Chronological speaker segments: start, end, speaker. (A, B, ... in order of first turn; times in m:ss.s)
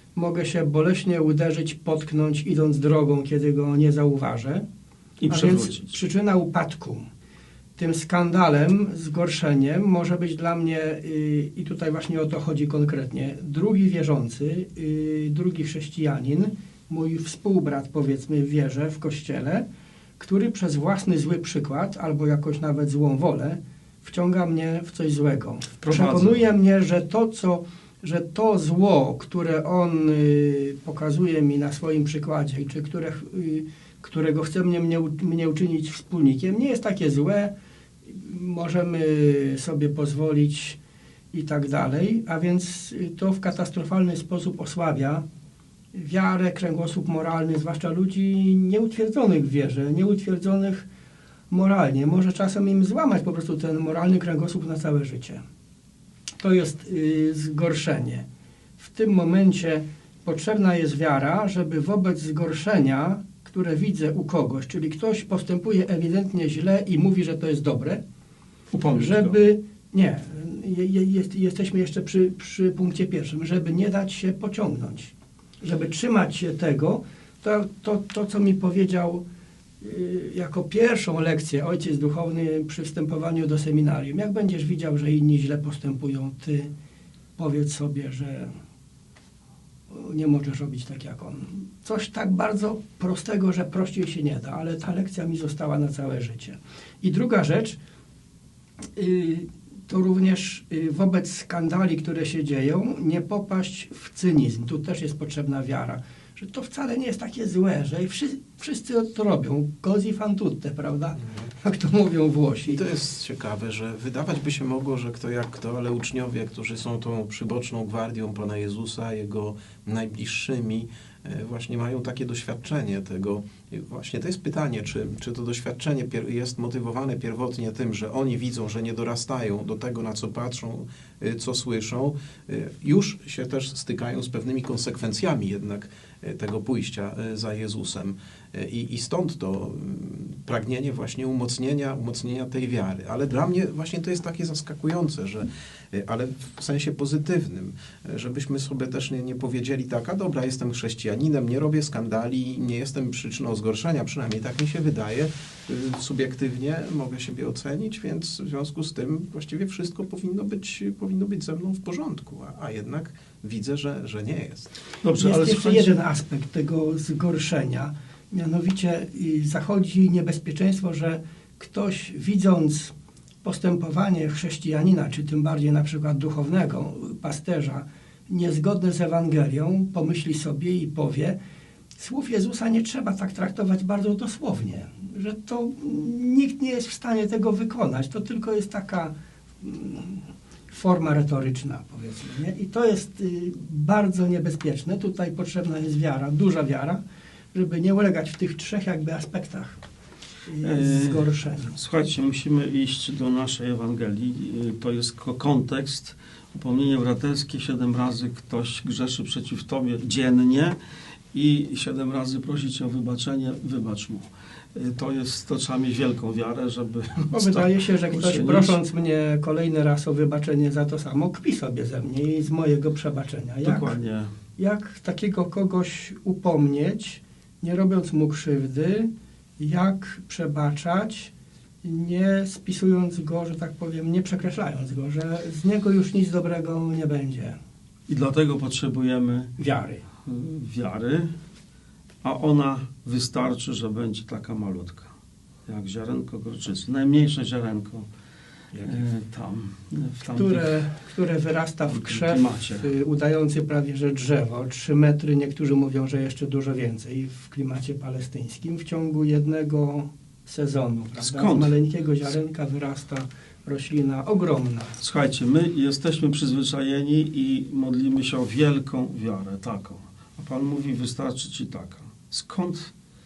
0:00.2-0:04.6 A
0:05.2-0:06.0 B
0:05.3-0:07.1 A
0:07.8-0:19.6 A
0:20.2-0:37.5 A
0:25.8-0:26.4 B
0:38.1-0:40.8 A
0:41.3-0:45.2 A
0:45.9-0:50.9 A
0:51.5-0:55.4 A
0:56.4-0:58.2 A
0:58.8-1:08.0 A
1:08.7-1:09.4 B
1:08.9-1:19.2 A
1:19.8-1:26.7 A
1:27.4-1:28.5 A
1:29.9-1:37.8 A
1:39.0-1:52.8 A
1:52.7-2:44.7 C
2:45.0-2:46.0 B
2:45.2-3:01.4 A
3:02.0-3:17.0 A
3:17.5-3:19.8 A
3:20.5-3:21.7 A
3:20.6-3:30.8 B
3:31.3-3:38.8 B
3:37.3-3:43.9 A
3:43.6-3:44.3 B
3:44.6-3:51.3 A
3:51.8-3:57.6 A
3:58.1-3:59.5 B
3:59.6-4:00.0 A
4:00.2-4:01.3 B
4:02.2-4:05.1 B
4:05.7-4:08.1 B
4:08.7-4:09.0 C
4:08.8-4:10.8 B
4:10.3-4:25.0 A
4:11.9-4:12.9 B
4:21.2-4:21.8 B
4:25.0-4:32.9 B